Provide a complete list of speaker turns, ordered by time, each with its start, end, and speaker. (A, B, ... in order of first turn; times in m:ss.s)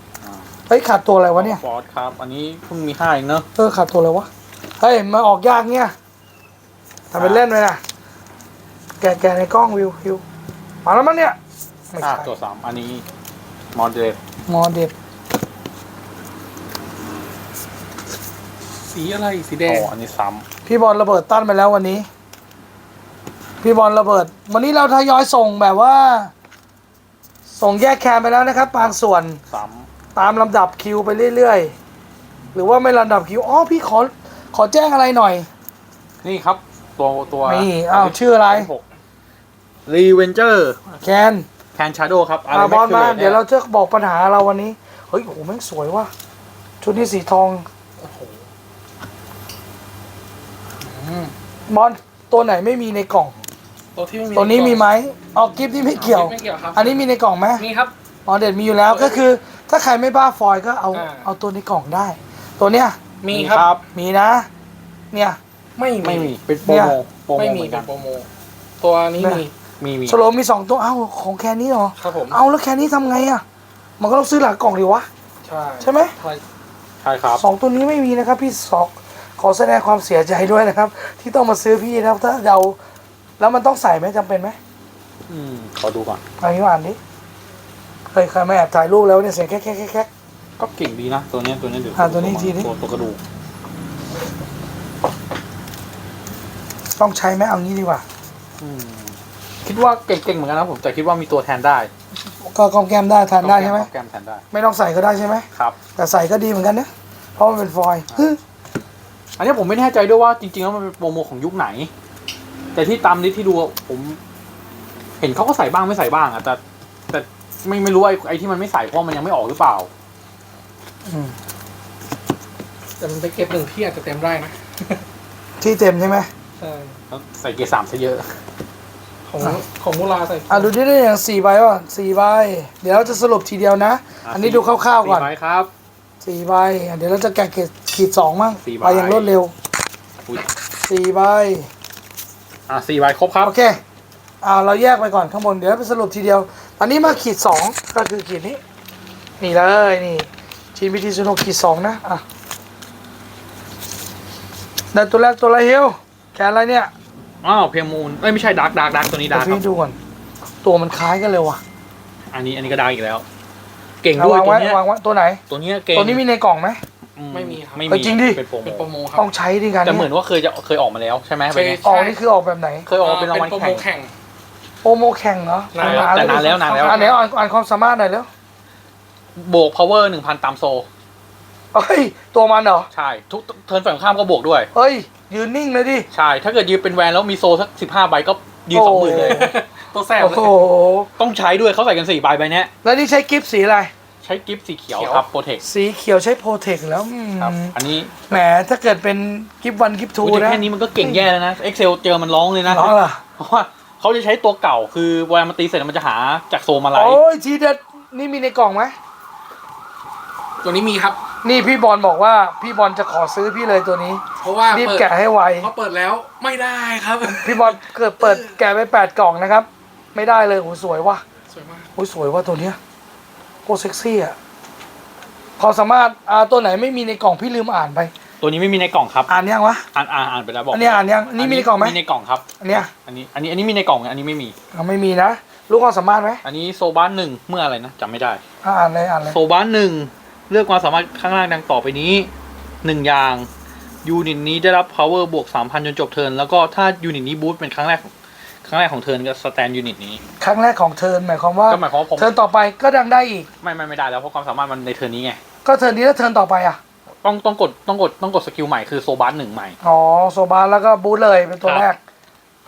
0:00.2-0:00.5 A
0:00.7-0:01.6 B
0:01.4-0:03.5 A
0:03.6-0:04.3 B
0:04.8-0:05.9 B
0:07.1-0:07.8 B
0:07.2-0:07.4 A
0:09.0-0:10.2 B
0:10.8-0:11.4 B
0:11.9-0:12.3 B
0:12.0-0:13.0 A
0:13.7-0:14.2 A
0:14.5-0:14.9 B
0:18.9-0:19.9 C
0:19.6-0:20.4 A
0:20.6-0:22.1 B
0:23.6-0:26.3 B
0:27.5-0:29.4 B
0:29.5-0:29.9 A
0:30.1-0:31.7 B
0:32.5-0:35.5 B
0:36.2-0:38.8 A
0:37.4-0:38.7 B
0:39.9-0:40.8 A
0:40.9-0:41.4 B
0:41.8-0:43.4 A
0:42.5-0:46.1 B
0:46.8-0:47.6 B
0:48.0-0:48.4 C
0:50.8-0:51.3 C
0:51.7-0:53.4 B
0:54.0-0:54.8 C
0:54.3-0:57.6 B
0:55.9-0:57.0 C
0:57.6-0:57.9 C
0:58.2-1:03.0 B
0:58.9-0:59.2 C
1:00.9-1:01.3 C
1:03.2-1:03.7 C
1:03.3-1:03.8 A
1:03.9-1:04.5 B
1:05.1-1:05.4 B
1:05.8-1:06.3 C
1:06.0-1:07.9 A
1:06.6-1:07.0 B
1:07.4-1:08.3 C
1:08.8-1:09.5 C
1:09.2-1:09.4 B
1:09.8-1:10.2 A
1:10.1-1:13.4 B
1:12.0-1:12.4 C
1:14.0-1:15.1 B
1:15.4-1:16.4 C
1:15.8-1:16.1 B
1:17.0-1:17.4 A
1:17.4-1:22.8 B
1:23.4-1:24.6 B
1:25.3-1:26.2 A
1:26.4-1:27.0 B
1:28.1-1:30.1 B
1:30.6-1:33.2 A
1:31.9-1:32.7 B
1:37.0-1:38.0 B
1:38.6-1:41.9 A
1:42.4-1:43.9 B
1:43.4-1:44.4 A
1:44.5-1:48.4 B
1:49.4-1:51.9 A
1:52.7-1:54.2 A
1:55.2-1:56.6 A
1:57.1-1:59.9 A
2:01.1-2:01.3 B
2:03.0-2:05.0 C
2:05.6-2:06.3 B
2:06.6-2:07.0 C
2:07.1-2:08.3 A
2:09.3-2:10.7 C
2:10.5-2:15.3 B
2:14.2-2:15.7 A
2:16.2-2:19.5 B
2:18.6-2:19.3 A
2:20.9-2:21.7 B
2:22.7-2:23.5 A
2:23.4-2:23.8 B
2:24.4-2:28.6 B
2:29.4-2:32.2 B
2:34.9-2:36.9 B
2:37.4-2:39.6 A
2:39.3-2:40.0 B
2:40.6-2:41.6 B
2:42.3-2:43.2 A
2:44.0-2:44.8 A
2:44.2-2:45.4 B
2:45.5-2:46.2 A
2:45.9-2:46.8 B
2:47.2-2:48.9 A
2:47.3-2:47.9 C
2:47.9-2:48.4 B
2:48.6-2:49.2 C
2:49.2-2:50.1 B
2:49.8-2:51.8 A
2:51.5-2:52.2 C
2:51.8-2:52.9 B
2:52.9-2:53.8 A
2:53.0-2:54.1 C
2:54.8-2:58.3 B
2:55.7-2:57.2 C
2:55.8-2:57.0 A
2:59.4-3:00.9 A
3:01.7-3:02.9 B
3:02.9-3:04.7 A
3:04.7-3:06.1 B
3:06.1-3:09.5 A
3:08.7-3:09.5 B
3:09.1-3:10.6 C
3:10.2-3:11.1 B
3:11.2-3:12.7 A
3:12.8-3:13.9 B
3:14.2-3:15.6 A
3:14.9-3:15.2 C
3:15.6-3:17.8 B
3:17.4-3:18.3 A
3:18.3-3:21.2 B
3:20.2-3:27.2 A
3:22.6-3:23.2 B
3:26.9-3:28.9 B
3:30.6-3:31.2 C
3:31.4-3:35.7 B
3:34.4-3:38.6 C
3:37.2-3:41.2 B
3:41.5-3:41.9 C
3:41.9-3:42.8 B
3:43.6-3:44.4 B
3:45.6-3:48.1 B
3:48.4-3:49.3 A
3:49.3-3:49.9 B
3:49.9-3:54.5 A
3:50.7-3:52.0 B
3:52.6-3:52.9 B
3:54.7-3:56.4 B
3:56.4-3:58.4 A
3:58.6-3:59.4 B
3:59.3-4:02.3 A
4:02.8-4:03.5 A
4:04.0-4:08.1 A
4:08.6-4:10.2 A
4:10.4-4:13.5 B
4:11.7-4:12.3 A
4:13.6-4:15.4 A
4:15.6-4:16.8 B
4:17.2-4:19.8 A
4:19.8-4:22.0 B